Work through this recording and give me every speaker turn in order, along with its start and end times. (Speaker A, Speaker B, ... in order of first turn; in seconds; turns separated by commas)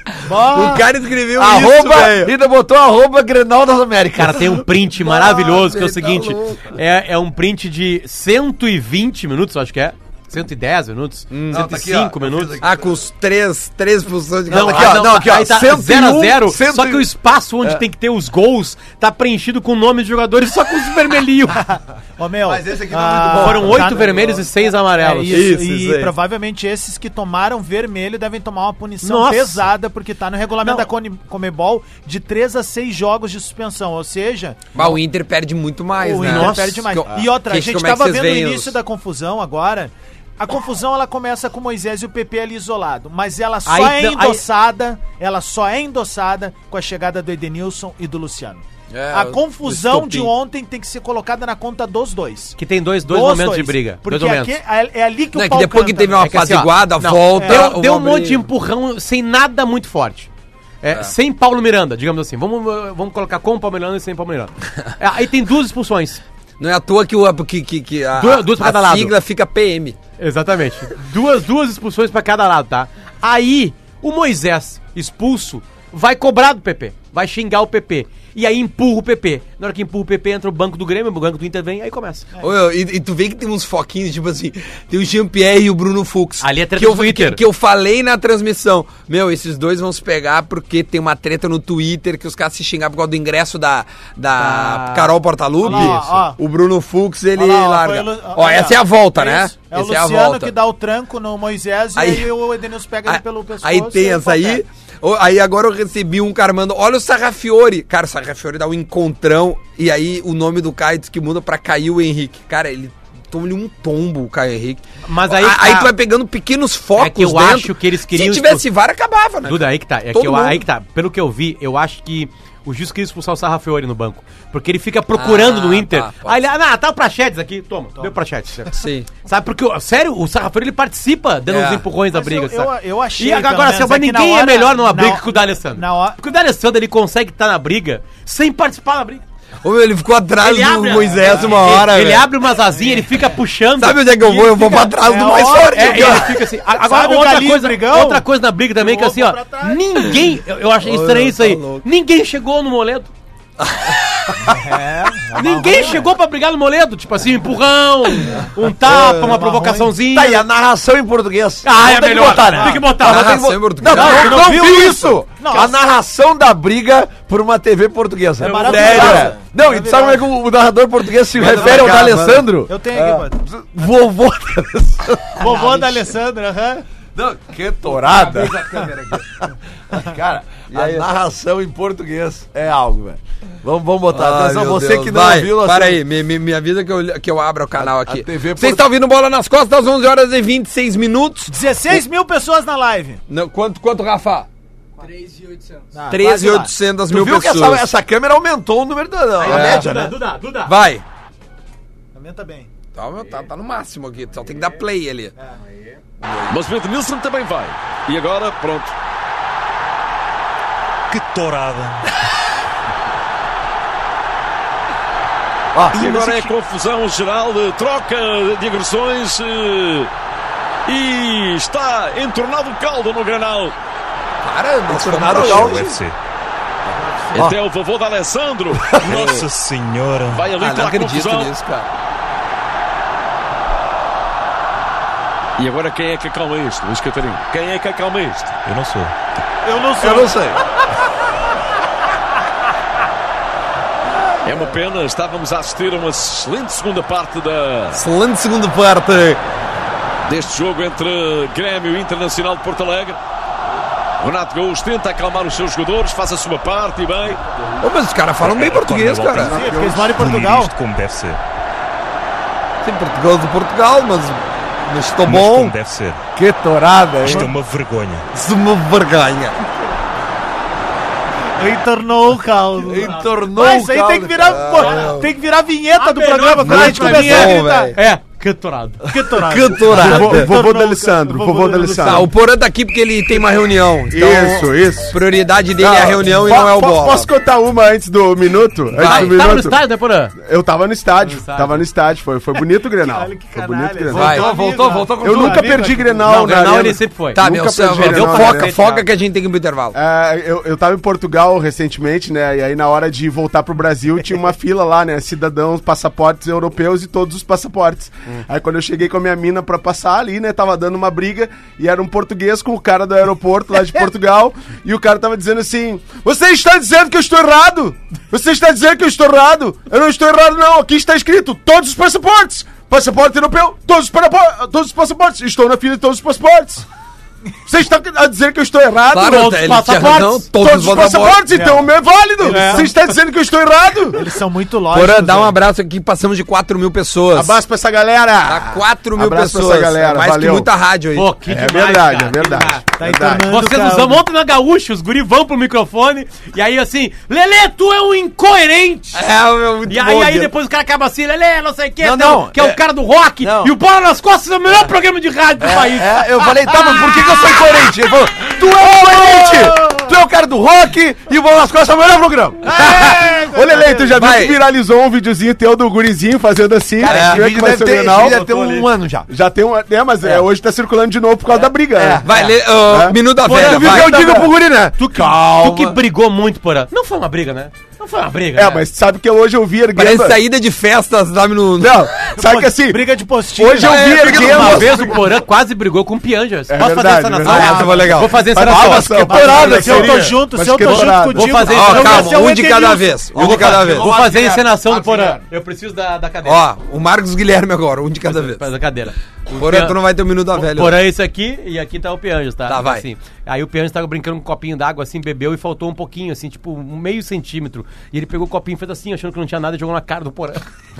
Speaker A: 0.2-0.9, Speaker B: 0.4-2.3, Speaker C: 1.4-4.6, Speaker D: 4.2-12.5, Speaker B: 5.0-6.8, Speaker B: 11.3-11.7, Speaker C: 11.5-13.0, Speaker B: 12.6-15.1, Speaker C: 14.5-17.1, Speaker D: 14.5-21.6, Speaker A: 21.5-34.6, Speaker C: 22.4-24.4, Speaker D: 23.4-25.4, Speaker B: 25.3-26.1, Speaker D: 29.0-29.6, Speaker B: 34.7-38.8, Speaker A: 36.0-56.5, Speaker D: 36.2-36.8, Speaker D: 43.6-44.4, Speaker B: 48.9-50.3, Speaker D: 52.6-54.5, Speaker B: 55.3-58.5, Speaker D: 56.2-60.3, Speaker A: 57.4-57.7, Speaker D: 60.8-66.2, Speaker B: 66.6-70.0, Speaker D: 68.2-69.1, Speaker D: 70.2-82.3, Speaker B: 82.4-100.5, Speaker D: 86.4-87.4, Speaker D: 94.4-95.1, Speaker D: 95.6-96.2, Speaker A: 95.6-96.4, Speaker A: 97.3-104.6, Speaker B: 102.0-102.3, Speaker B: 103.0-120.7, Speaker D: 115.0-115.9, Speaker D: 117.0-118.7, Speaker D: 119.5-139.2, Speaker B: 125.1-126.4, Speaker B: 128.7-129.1, Speaker B: 131.5-131.8, Speaker A: 132.1-136.2, Speaker B: 139.6-142.3, Speaker D: 140.4-153.1, Speaker A: 142.8-143.0, Speaker B: 143.8-146.4, Speaker A: 145.0-150.2, Speaker B: 150.8-151.8, Speaker B: 153.6-154.6, Speaker A: 154.4-156.0, Speaker D: 155.3-160.4, Speaker B: 158.8-159.3, Speaker A: 158.9-159.9, Speaker C: 160.1-175.9, Speaker D: 161.6-163.3, Speaker A: 162.4-162.8, Speaker B: 163.0-164.3, Speaker D: 163.9-164.7, Speaker A: 163.9-165.8, Speaker A: 168.4-170.2, Speaker D: 168.5-169.3, Speaker B: 168.7-169.2, Speaker B: 171.3-173.3, Speaker A: 171.4-173.4, Speaker A: 175.4-176.8, Speaker C: 177.2-186.0, Speaker A: 178.1-178.9, Speaker B: 178.4-179.1, Speaker B: 180.7-181.1, Speaker B: 184.1-192.0, Speaker C: 187.8-188.8, Speaker A: 191.5-193.2, Speaker B: 193.3-194.5, Speaker A: 195.9-196.7, Speaker B: 196.1-197.9, Speaker C: 197.1-200.1, Speaker D: 199.4-200.7, Speaker B: 199.5-199.9, Speaker B: 200.7-201.0, Speaker A: 202.1-202.7, Speaker B: 202.9-205.3, Speaker B: 206.2-206.6, Speaker E: 206.5-208.9, Speaker F: 211.1-212.1, Speaker C: 215.7-216.5, Speaker E: 215.9-220.1, Speaker E: 220.9-223.7, Speaker B: 224.4-226.0, Speaker C: 224.9-226.0, Speaker F: 225.3-226.2, Speaker E: 227.2-229.5, Speaker C: 228.8-229.4, Speaker F: 229.1-230.5, Speaker E: 230.3-231.5, Speaker B: 230.6-231.9, Speaker E: 235.6-238.6, Speaker F: 238.7-239.1, Speaker A: 239.6-240.4, Speaker C: 240.0-240.6, Speaker E: 244.4-248.0, Speaker B: 247.9-249.4, Speaker E: 250.3-253.2, Speaker E: 254.2-257.4, Speaker B: 257.8-259.6, Speaker F: 258.4-261.4, Speaker A: 259.4-260.7, Speaker G: 259.4-260.1, Speaker B: 262.8-265.7, Speaker F: 265.2-266.2, Speaker C: 266.4-267.5, Speaker F: 267.2-268.3, Speaker A: 267.2-267.5, Speaker B: 268.3-269.6, Speaker A: 271.5-278.0, Speaker C: 272.8-274.9, Speaker B: 274.5-275.3, Speaker D: 275.9-279.1, Speaker B: 276.6-278.0, Speaker A: 279.1-282.3, Speaker B: 279.4-280.5, Speaker G: 279.9-282.3, Speaker B: 282.0-287.3, Speaker G: 284.1-285.2, Speaker G: 285.8-289.8, Speaker B: 289.0-289.4, Speaker D: 289.0-290.3, Speaker G: 290.4-294.4, Speaker D: 291.2-291.8, Speaker A: 293.0-296.3, Speaker B: 294.1-294.5, Speaker C: 294.2-295.9, Speaker G: 295.2-298.7, Speaker D: 296.2-299.1, Speaker B: 297.3-300.0, Speaker G: 299.9-326.8, Speaker G: 327.7-329.6, Speaker B: 329.1-331.4, Speaker D: 329.2-330.5, Speaker G: 330.6-334.3, Speaker D: 331.5-331.8, Speaker A: 332.4-332.9, Speaker D: 332.4-332.9, Speaker A: 334.2-335.6, Speaker B: 334.9-337.6, Speaker G: 337.3-340.7, Speaker B: 338.4-341.3, Speaker D: 341.1-349.2, Speaker G: 341.4-343.5, Speaker A: 343.0-344.2, Speaker B: 349.1-350.5, Speaker D: 349.9-356.6, Speaker C: 352.0-352.8, Speaker C: 353.4-353.7, Speaker C: 355.6-362.7, Speaker A: 356.7-357.4, Speaker G: 358.8-359.8, Speaker A: 359.5-360.0, Speaker A: 362.6-364.2, Speaker G: 362.8-368.5, Speaker B: 364.2-364.6, Speaker C: 367.0-369.3, Speaker B: 367.1-367.4, Speaker D: 368.2-368.9, Speaker G: 369.3-372.3, Speaker C: 371.9-372.5, Speaker B: 372.2-374.2, Speaker G: 372.8-374.5, Speaker D: 373.4-374.3, Speaker C: 373.5-376.0, Speaker D: 375.0-378.8, Speaker G: 378.5-380.4, Speaker B: 379.9-382.1, Speaker G: 381.8-385.2, Speaker A: 382.2-385.2, Speaker B: 383.8-385.1, Speaker D: 384.2-390.2, Speaker G: 386.7-391.7, Speaker B: 387.4-388.6, Speaker A: 387.4-393.8, Speaker C: 389.4-390.3, Speaker D: 390.8-392.6, Speaker B: 391.7-394.1, Speaker C: 393.3-395.4, Speaker D: 393.4-396.6, Speaker B: 396.4-398.7, Speaker D: 398.2-400.0, Speaker B: 399.5-401.0, Speaker D: 400.5-410.6, Speaker B: 402.7-403.0